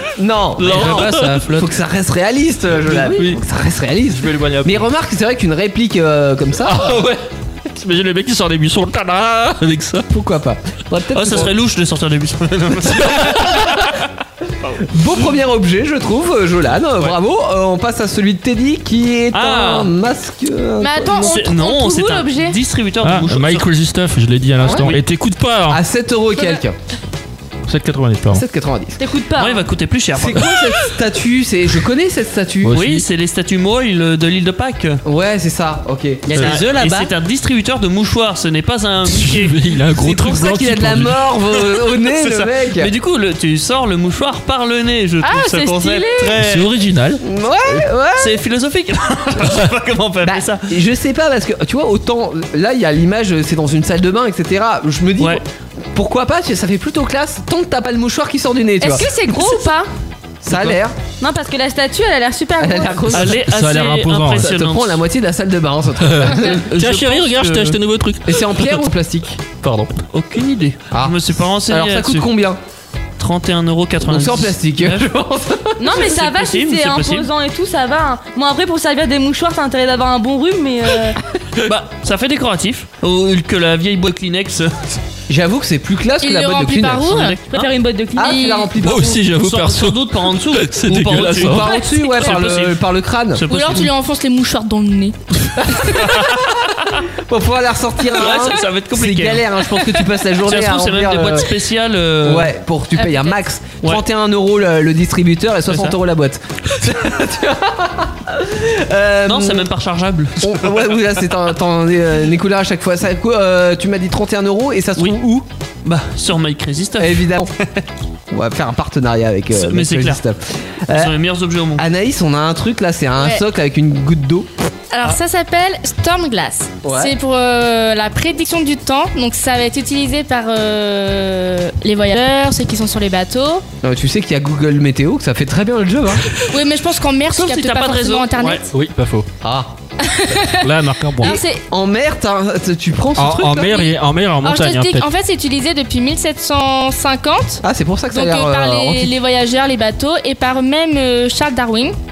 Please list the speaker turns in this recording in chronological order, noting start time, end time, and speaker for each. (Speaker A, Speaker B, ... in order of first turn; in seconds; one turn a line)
Speaker A: 0.2-6.9
Speaker B: 0.6-1.7
Speaker C: 0.6-1.4
Speaker B: 2.8-3.4
Speaker B: 4.1-4.8
Speaker B: 6.6-10.1
Speaker A: 10.1-11.5
Speaker C: 11.1-13.6
Speaker B: 13.0-13.6
Speaker A: 14.9-21.4
Speaker C: 19.3-19.9
Speaker D: 20.8-22.6
Speaker C: 21.2-23.6
Speaker B: 23.0-25.8
Speaker C: 24.6-25.0
Speaker A: 24.6-24.9
Speaker A: 25.7-26.8
Speaker B: 27.7-28.4
Speaker A: 28.3-29.0
Speaker D: 29.0-29.6
Speaker C: 29.4-30.5
Speaker A: 30.1-32.8
Speaker B: 32.6-33.0
Speaker C: 32.7-35.0
Speaker A: 35.0-37.1
Speaker C: 36.3-39.6
Speaker B: 36.3-36.6
Speaker B: 39.1-41.3
Speaker A: 40.0-42.9
Speaker C: 42.0-46.7
Speaker D: 45.2-46.4
Speaker B: 46.4-47.2
Speaker A: 47.2-48.4
Speaker C: 48.1-50.6
Speaker A: 50.2-55.4
Speaker A: 55.9-59.1
Speaker D: 58.8-59.9
Speaker A: 60.4-61.0
Speaker D: 61.2-63.1
Speaker A: 62.6-63.4
Speaker C: 63.1-65.0
Speaker B: 63.2-64.5
Speaker A: 64.4-66.6
Speaker B: 66.0-68.8
Speaker C: 66.4-67.8
Speaker A: 68.3-69.4
Speaker B: 69.6-69.9
Speaker C: 70.1-72.3
Speaker A: 70.9-72.6
Speaker C: 73.2-75.0
Speaker A: 74.0-75.8
Speaker D: 75.8-81.2
Speaker C: 75.9-77.3
Speaker C: 81.6-85.0
Speaker A: 85.3-87.2
Speaker E: 86.2-87.4
Speaker C: 87.1-87.7
Speaker D: 87.5-88.5
Speaker A: 88.2-89.2
Speaker E: 88.2-88.7
Speaker B: 88.8-91.7
Speaker C: 89.4-92.8
Speaker A: 90.9-93.4
Speaker E: 91.7-92.4
Speaker C: 93.3-93.9
Speaker E: 93.5-95.1
Speaker A: 95.6-101.5
Speaker C: 96.0-97.0
Speaker C: 98.1-99.7
Speaker C: 100.4-102.5
Speaker A: 102.2-109.7
Speaker E: 103.0-103.3
Speaker C: 105.7-106.0
Speaker C: 109.2-111.2
Speaker A: 110.4-115.5
Speaker C: 115.8-117.4
Speaker A: 117.0-117.5
Speaker A: 118.3-121.1
Speaker C: 119.5-120.2
Speaker C: 120.9-121.8
Speaker A: 121.8-124.5
Speaker E: 124.9-133.6
Speaker A: 126.8-127.1
Speaker A: 133.8-136.3
Speaker E: 136.5-138.7
Speaker C: 137.3-138.6
Speaker B: 138.7-139.2
Speaker A: 139.4-139.7
Speaker E: 140.0-141.6
Speaker B: 140.6-141.4
Speaker A: 141.7-143.7
Speaker B: 143.2-145.1
Speaker E: 143.6-151.9
Speaker A: 147.6-149.1